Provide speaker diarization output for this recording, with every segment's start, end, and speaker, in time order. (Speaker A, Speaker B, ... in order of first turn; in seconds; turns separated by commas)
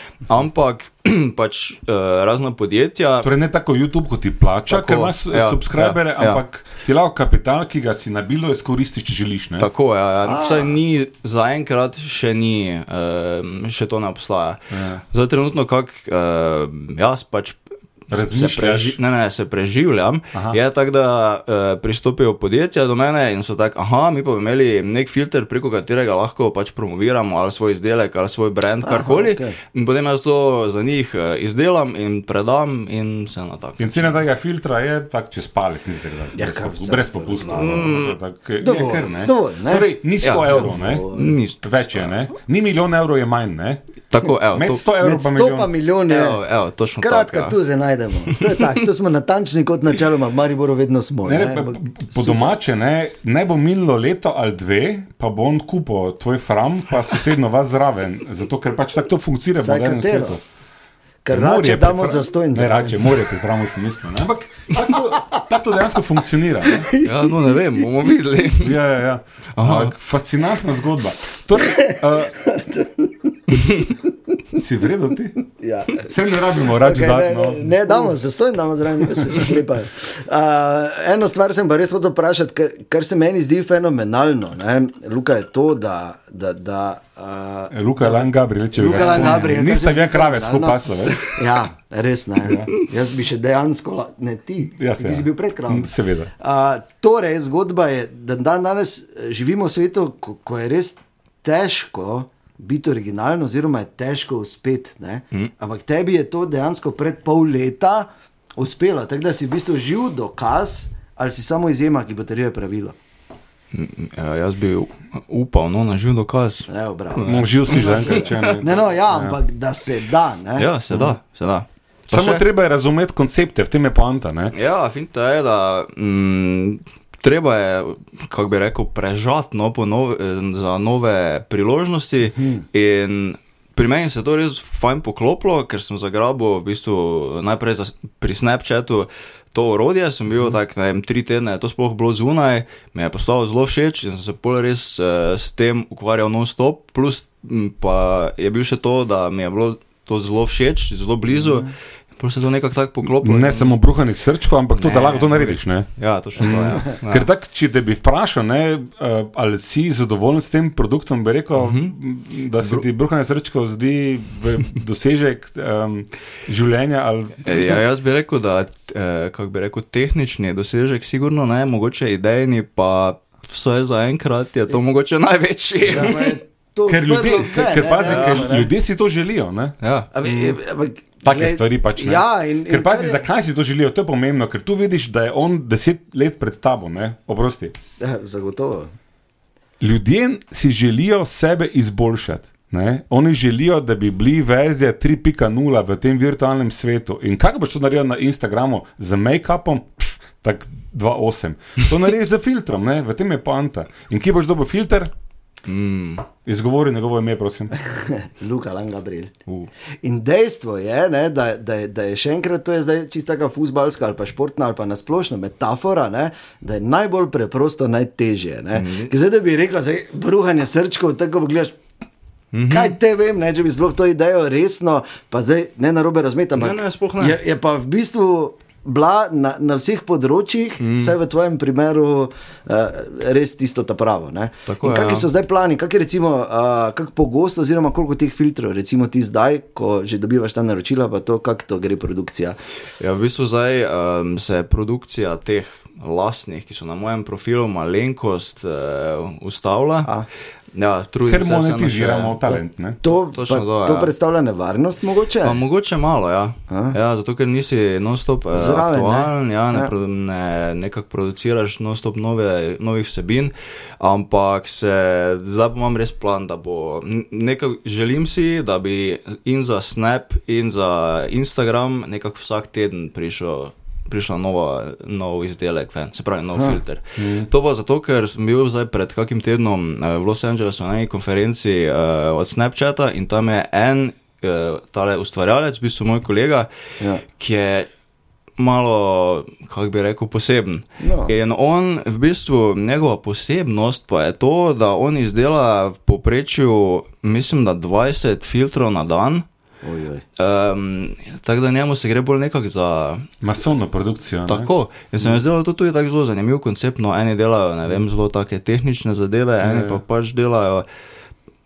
Speaker A: 0.3-3.3, Speaker B: 3.2-9.7, Speaker A: 4.7-6.4, Speaker A: 9.6-17.6, Speaker C: 10.2-10.8, Speaker B: 14.7-15.0, Speaker B: 18.1-19.0, Speaker A: 18.1-34.2, Speaker B: 20.3-20.6, Speaker C: 28.8-29.5, Speaker B: 33.8-41.1, Speaker C: 36.4-38.0, Speaker A: 37.5-38.1, Speaker C: 38.6-41.4, Speaker A: 40.2-42.1, Speaker B: 41.6-43.8, Speaker A: 44.1-44.8, Speaker B: 44.5-45.7, Speaker C: 45.0-52.5, Speaker A: 46.1-47.6, Speaker A: 48.3-48.7, Speaker B: 51.2-60.4, Speaker C: 59.6-60.4, Speaker C: 61.2-63.3, Speaker B: 61.3-66.9, Speaker C: 66.6-67.9, Speaker A: 67.0-68.8, Speaker B: 68.6-72.3, Speaker A: 69.5-69.9, Speaker C: 71.5-73.9, Speaker B: 74.5-75.4, Speaker C: 75.5-113.0, Speaker B: 76.0-78.1, Speaker B: 79.1-79.5, Speaker B: 87.7-91.2, Speaker A: 88.9-89.5, Speaker B: 92.4-92.7, Speaker B: 94.8-96.3, Speaker A: 113.7-118.6, Speaker C: 116.7-120.7, Speaker B: 117.2-119.4, Speaker A: 120.5-122.4, Speaker B: 120.9-121.2, Speaker B: 122.1-124.5, Speaker A: 124.5-153.8, Speaker C: 132.4-132.6, Speaker C: 151.4-151.7, Speaker B: 153.0-167.8, Speaker A: 154.8-157.3, Speaker A: 161.6-161.9, Speaker A: 162.6-162.8, Speaker A: 167.4-176.3, Speaker C: 175.8-178.7, Speaker B: 176.9-180.6, Speaker A: 178.0-178.5, Speaker A: 179.8-180.1, Speaker C: 180.1-183.2, Speaker B: 181.2-187.7, Speaker C: 188.0-188.9, Speaker B: 189.8-205.1, Speaker A: 205.7-206.2, Speaker B: 206.4-207.7, Speaker C: 207.8-209.3, Speaker C: 210.0-221.8, Speaker A: 218.7-219.1, Speaker A: 222.5-222.9, Speaker C: 222.7-242.6, Speaker A: 226.6-227.4, Speaker A: 230.8-231.1, Speaker A: 234.7-235.3, Speaker A: 243.0-250.1, Speaker A: 250.7-252.6, Speaker B: 251.2-253.0, Speaker C: 253.0-255.6, Speaker A: 253.1-254.1, Speaker A: 255.4-286.7, Speaker C: 256.7-256.9, Speaker C: 258.5-259.9, Speaker B: 277.2-277.5, Speaker A: 287.3-287.9, Speaker A: 288.6-299.4, Speaker C: 291.0-291.3, Speaker C: 299.8-300.2, Speaker A: 300.4-303.3, Speaker B: 303.4-304.7, Speaker A: 304.5-310.9, Speaker B: 309.6-310.0